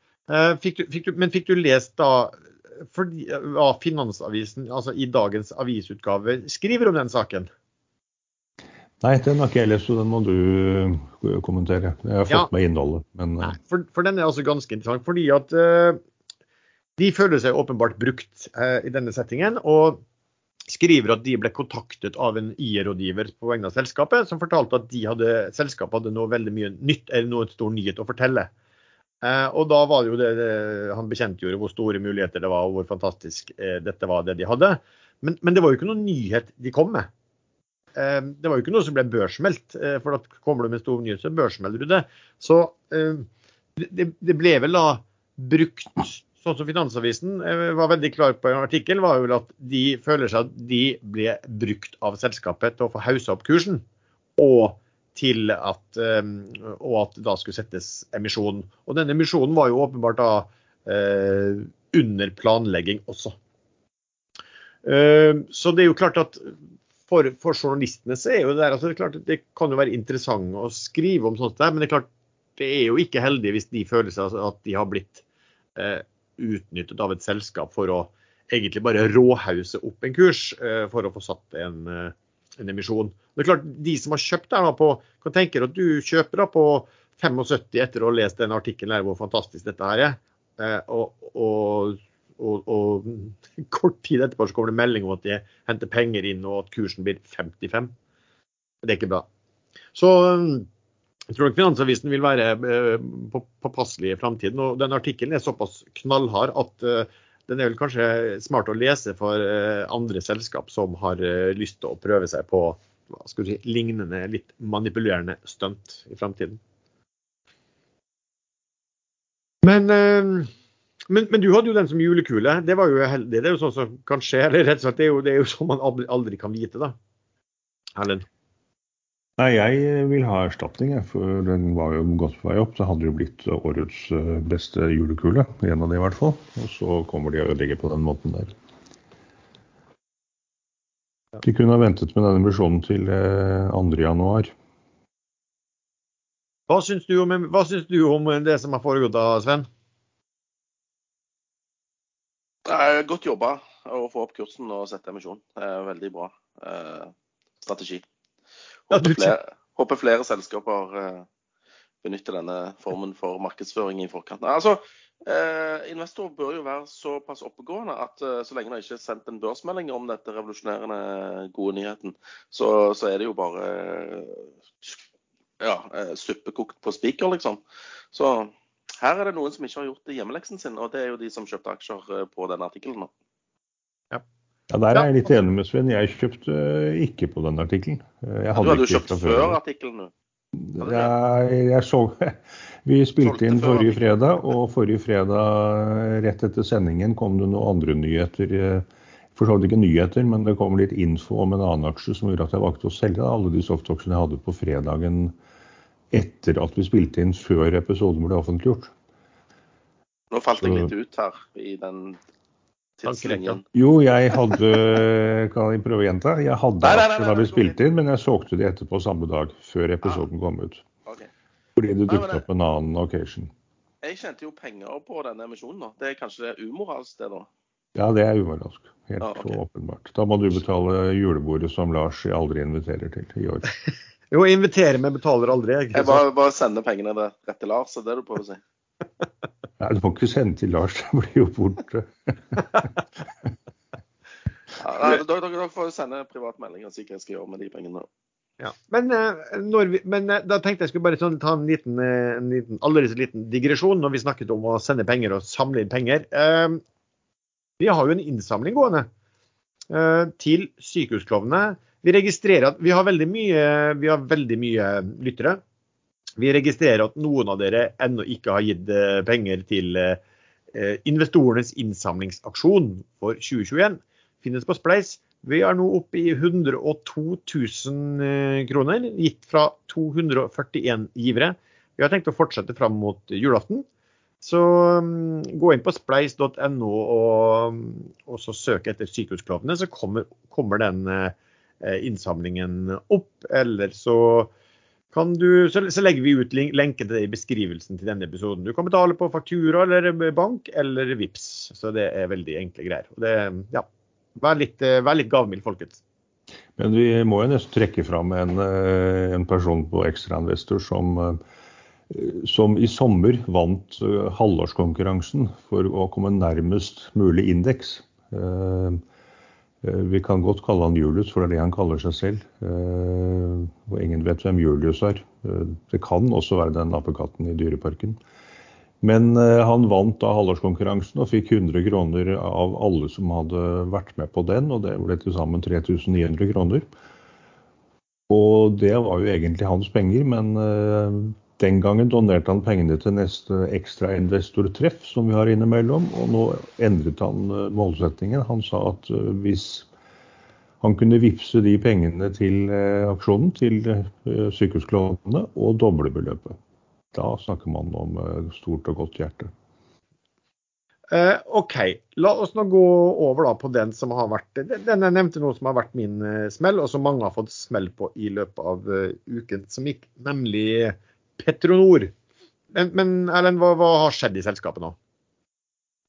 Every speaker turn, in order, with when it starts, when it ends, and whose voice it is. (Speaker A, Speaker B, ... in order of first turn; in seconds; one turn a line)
Speaker A: 0.3-7.5
Speaker B: 9.0-13.6
Speaker A: 13.4-16.0
Speaker A: 17.0-20.0
Speaker A: 20.7-28.5
Speaker A: 29.2-37.1
Speaker A: 38.0-53.8
Speaker A: 54.4-63.4
Speaker A: 64.8-75.2
Speaker A: 75.8-97.9
Speaker A: 98.8-99.3
Speaker A: 100.0-100.7
Speaker A: 101.3-116.6
Speaker A: 119.6-120.5
Speaker A: 121.1-127.0
Speaker A: 128.0-128.3
Speaker B: 129.4-138.5
Speaker B: 141.4-144.5
Speaker A: 146.7-149.7
Speaker C: 152.7-158.0
Speaker C: 158.9-161.3
Speaker A: 158.9-159.3
Speaker C: 162.0-175.0
Speaker C: 175.6-183.1
Speaker B: 184.7-189.6
Speaker C: 188.6-190.1
Speaker B: 190.6-205.4
Speaker C: 190.8-191.1
Speaker B: 206.1-208.9
Speaker C: 210.3-212.2
Speaker B: 210.6-210.9
Speaker C: 213.0-213.6
Speaker A: 213.1-213.6
Speaker B: 213.7-220.8
Speaker C: 216.8-217.8
Speaker B: 221.8-223.5
Speaker C: 222.1-222.4
Speaker C: 224.0-227.5
Speaker B: 227.9-233.7
Speaker C: 229.2-229.6
Speaker A: 234.3-236.2
Speaker C: 235.9-238.6
Speaker B: 239.8-242.9
Speaker C: 244.8-248.1
Speaker A: 248.6-256.8
Speaker A: 257.8-259.1
Speaker A: 259.9-265.6
Speaker A: 266.4-270.2
Speaker A: 270.7-283.9
Speaker A: 284.4-294.5
Speaker A: 295.1-303.9
Speaker A: 304.4-306.0
Speaker B: 306.8-311.4
Speaker B: 312.1-319.0
Speaker B: 319.8-328.2
Speaker B: 329.0-336.9
Speaker B: 338.3-349.9
Speaker B: 350.8-356.6
Speaker B: 357.1-359.5
Speaker A: 361.1-372.1
Speaker A: 372.7-375.0